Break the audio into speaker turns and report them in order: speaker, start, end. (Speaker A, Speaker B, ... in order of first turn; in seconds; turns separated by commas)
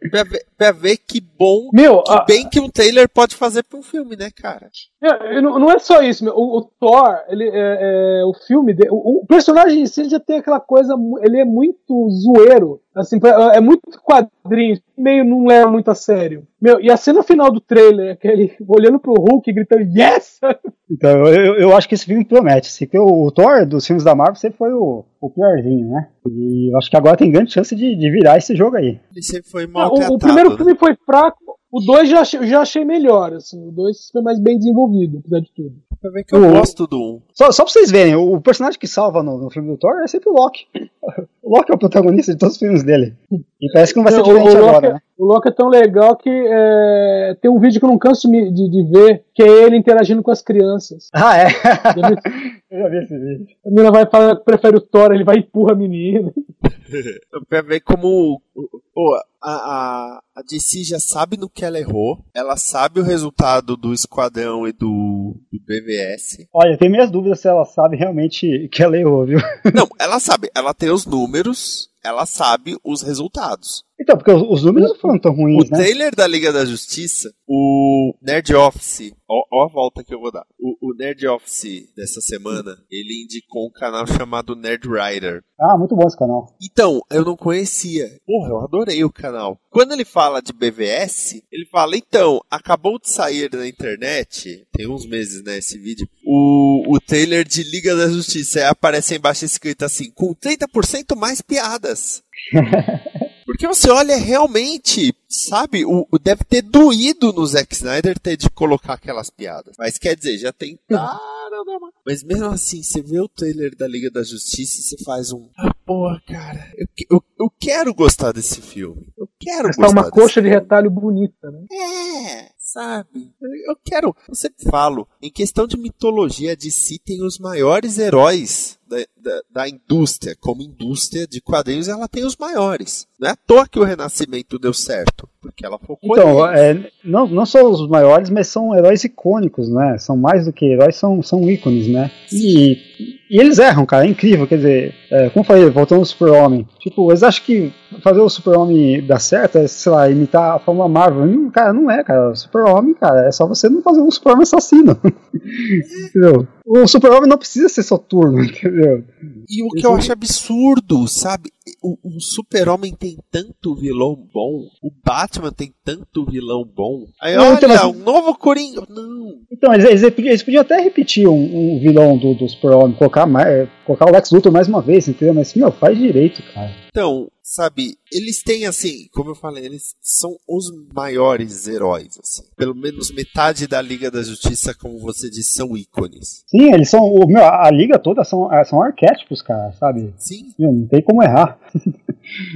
Speaker A: 0.1-4.7, Speaker B: 1.7-2.5, Speaker B: 5.0-20.5, Speaker C: 20.9-29.0, Speaker A: 29.1-30.7, Speaker B: 29.8-35.8, Speaker A: 36.0-37.3, Speaker C: 36.3-36.7, Speaker C: 37.4-45.0, Speaker B: 44.1-51.1, Speaker C: 51.1-53.5, Speaker B: 51.9-52.2, Speaker B: 53.6-56.3, Speaker A: 56.9-66.5, Speaker C: 66.5-69.4, Speaker A: 69.7-73.8, Speaker C: 74.0-75.9, Speaker A: 75.5-85.4, Speaker C: 85.6-86.5, Speaker A: 86.6-102.2, Speaker C: 102.5-103.2, Speaker A: 103.5-120.7, Speaker B: 119.7-121.7, Speaker A: 121.7-136.7, Speaker C: 136.0-159.1, Speaker A: 155.8-156.1, Speaker A: 159.5-169.4, Speaker C: 159.7-160.2, Speaker C: 167.3-168.0, Speaker C: 169.5-176.8, Speaker A: 176.9-186.4, Speaker C: 186.5-192.5, Speaker A: 190.2-190.6